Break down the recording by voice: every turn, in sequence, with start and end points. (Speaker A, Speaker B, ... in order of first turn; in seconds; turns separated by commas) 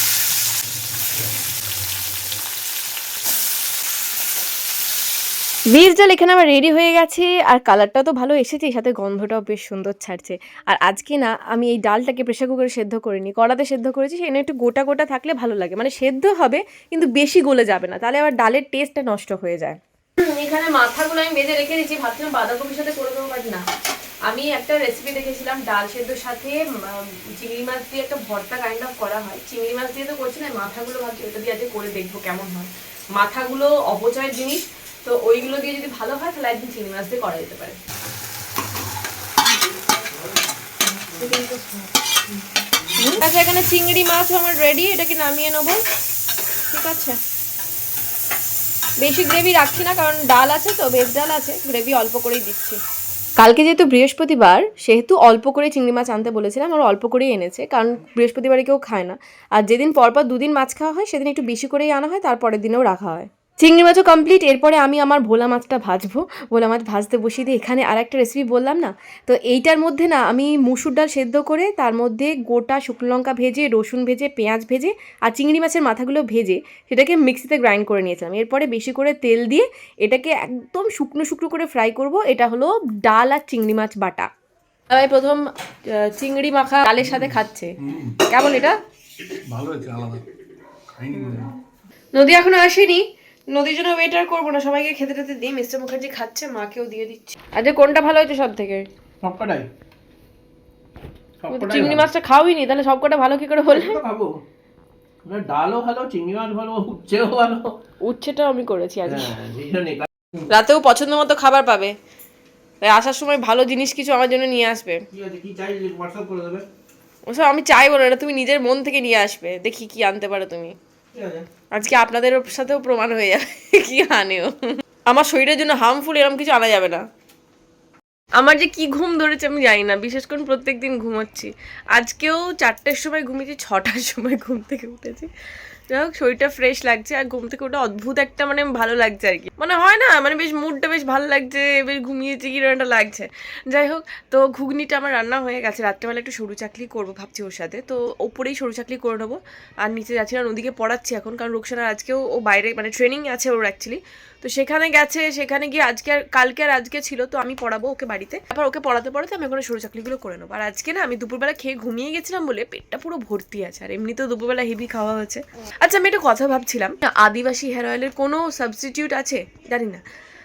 Speaker A: 5.7-23.6, Speaker A: 24.3-37.8, Speaker B: 41.1-41.5, Speaker A: 43.0-45.8, Speaker A: 46.7-47.2, Speaker A: 49.0-52.8, Speaker A: 53.4-84.3, Speaker A: 84.9-88.8, Speaker B: 87.8-88.2, Speaker B: 89.5-90.2, Speaker B: 91.0-91.5, Speaker A: 91.1-91.5, Speaker A: 92.1-98.9, Speaker B: 99.2-99.7, Speaker B: 101.4-102.0, Speaker A: 101.5-104.0, Speaker B: 103.7-104.4, Speaker B: 105.2-107.8, Speaker A: 108.0-109.3, Speaker B: 109.0-110.3, Speaker A: 110.5-111.9, Speaker A: 112.8-115.0, Speaker B: 115.1-116.7, Speaker A: 117.3-120.7, Speaker B: 121.1-121.5, Speaker A: 121.7-127.0, Speaker A: 128.3-135.3, Speaker A: 135.9-170.0